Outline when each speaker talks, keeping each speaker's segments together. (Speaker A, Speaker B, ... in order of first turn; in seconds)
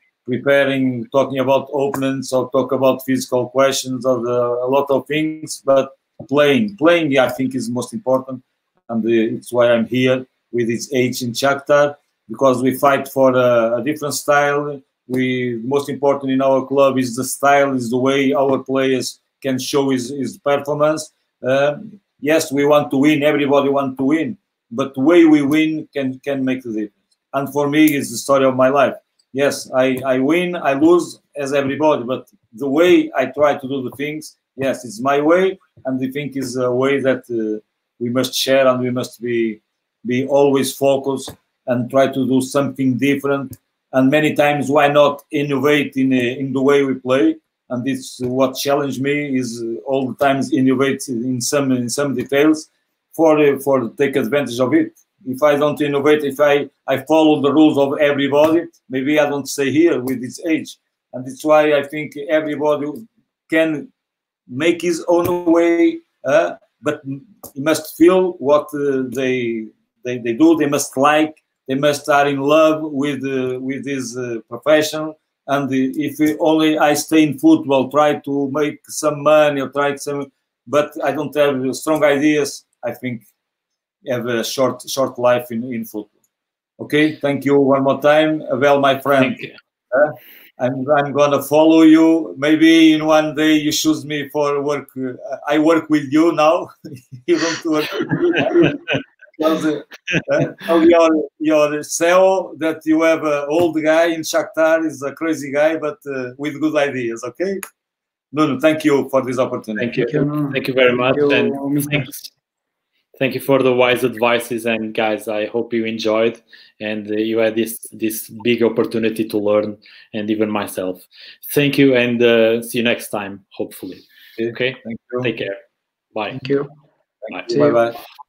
Speaker A: 0.3-63.9, 64.5-83.2, 84.0-86.1, 86.8-98.8, 99.4-107.6, 108.3-109.9, 124.4-125.3, 127.2-128.0
Speaker B: 89.2-89.5, 98.4-98.7, 109.8-112.3, 113.2-125.6, 126.1-126.4
Speaker C: 110.0-112.1, 126.3-126.7, 127.5-127.8